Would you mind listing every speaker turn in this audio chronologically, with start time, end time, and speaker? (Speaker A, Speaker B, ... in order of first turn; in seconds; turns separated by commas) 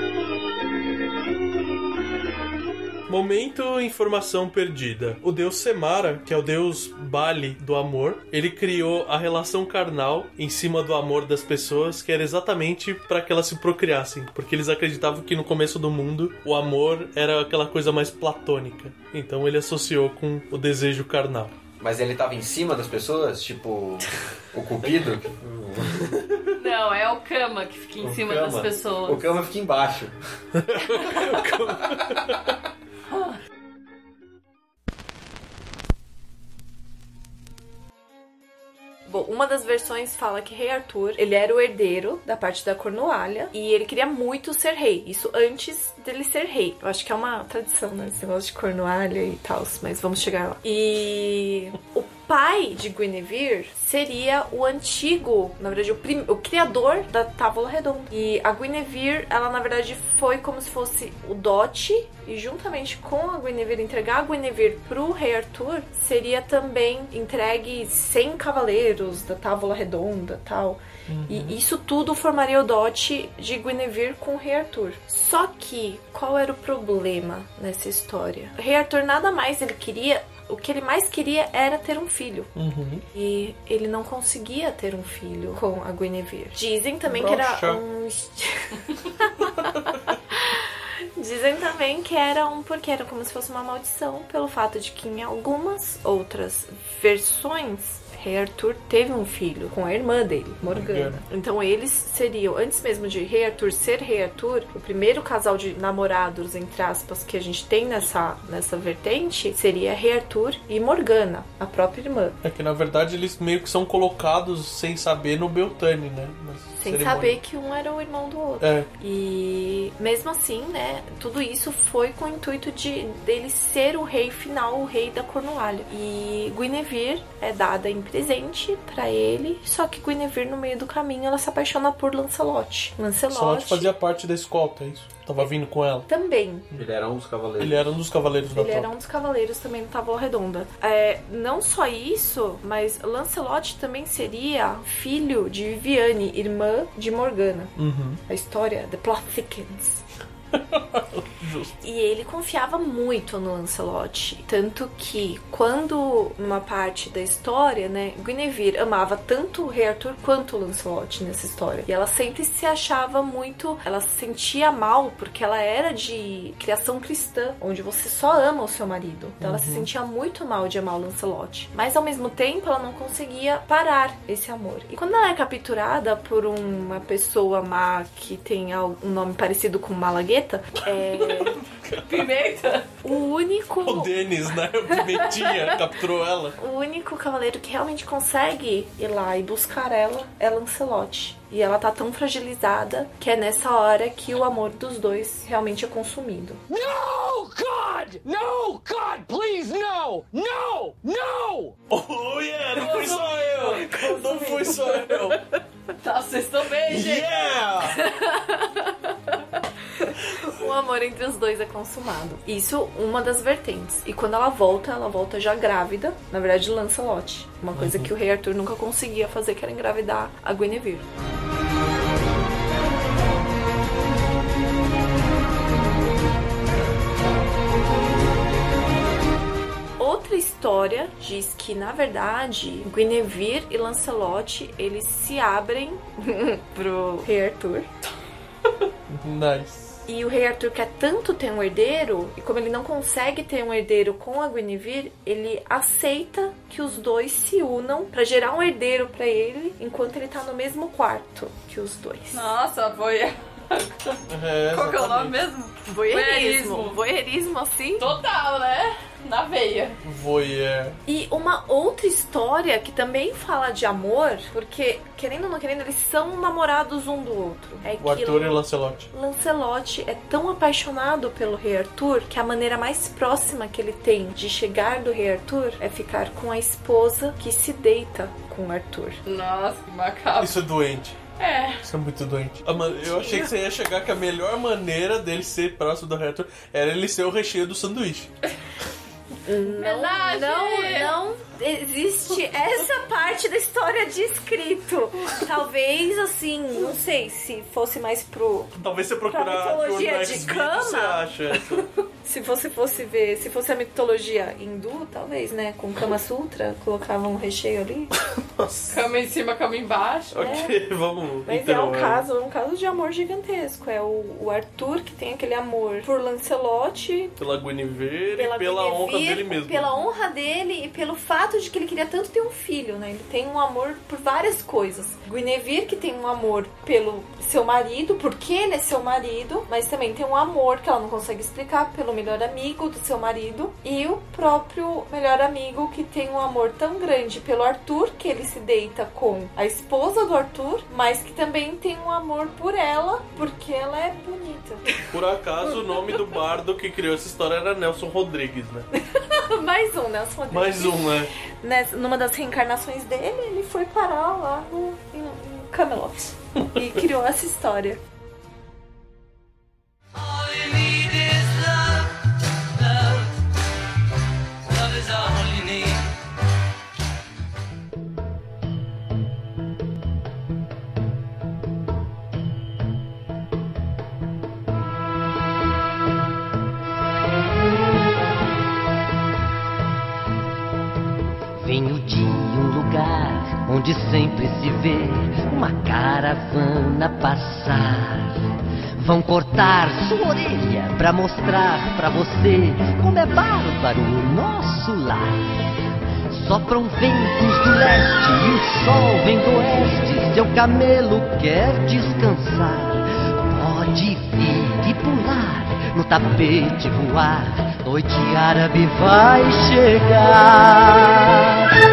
Speaker A: 3.1-21.6, Speaker B: 21.8-26.2, Speaker C: 26.6-29.3, Speaker B: 28.0-30.2, Speaker A: 30.6-32.4, Speaker C: 33.1-33.4, Speaker D: 39.1-82.5, Speaker A: 71.1-71.6, Speaker A: 82.6-83.0, Speaker D: 83.1-89.5, Speaker A: 87.1-87.8, Speaker D: 90.3-112.4, Speaker A: 100.7-101.2, Speaker A: 112.4-117.4, Speaker D: 116.8-133.9, Speaker A: 118.6-118.9, Speaker A: 133.3-136.1, Speaker D: 136.1-136.7, Speaker B: 136.7-138.0, Speaker A: 137.6-138.9, Speaker D: 138.5-147.7, Speaker A: 147.8-148.2, Speaker D: 148.3-150.0, Speaker A: 150.5-151.7, Speaker D: 151.8-181.6, Speaker A: 169.4-169.9, Speaker A: 180.9-182.2, Speaker C: 182.1-182.9, Speaker D: 183.0-184.2, Speaker A: 183.8-186.6, Speaker D: 186.6-196.6, Speaker E: 196.7-201.7, Speaker A: 201.9-205.4, Speaker C: 202.8-203.2, Speaker D: 203.8-205.1, Speaker C: 206.0-207.6, Speaker A: 206.9-208.0, Speaker D: 208.3-208.8, Speaker D: 210.0-221.1, Speaker A: 217.8-218.1, Speaker D: 230.0-237.9, Speaker A: 239.1-240.0, Speaker D: 240.1-252.5, Speaker C: 252.3-257.0, Speaker A: 254.3-255.4, Speaker D: 255.8-258.0, Speaker C: 258.0-260.0, Speaker A: 260.0-261.0, Speaker D: 261.1-268.6, Speaker A: 268.0-269.1, Speaker D: 269.1-279.2, Speaker C: 279.3-280.6, Speaker A: 280.4-281.2, Speaker C: 281.4-281.8, Speaker A: 281.8-288.3, Speaker D: 283.0-283.5, Speaker D: 289.5-298.8, Speaker C: 289.8-291.1, Speaker A: 298.8-301.9, Speaker D: 299.3-301.2, Speaker D: 302.2-308.1, Speaker A: 308.4-309.0, Speaker C: 308.9-310.6, Speaker A: 310.3-312.2, Speaker D: 310.4-310.8, Speaker D: 311.5-317.4, Speaker A: 317.4-319.9, Speaker D: 318.4-345.0, Speaker A: 345.1-348.9, Speaker D: 349.1-351.1, Speaker A: 350.5-351.3, Speaker D: 351.6-358.0, Speaker F: 381.6-388.4, Speaker F: 389.0-395.4, Speaker F: 396.3-411.4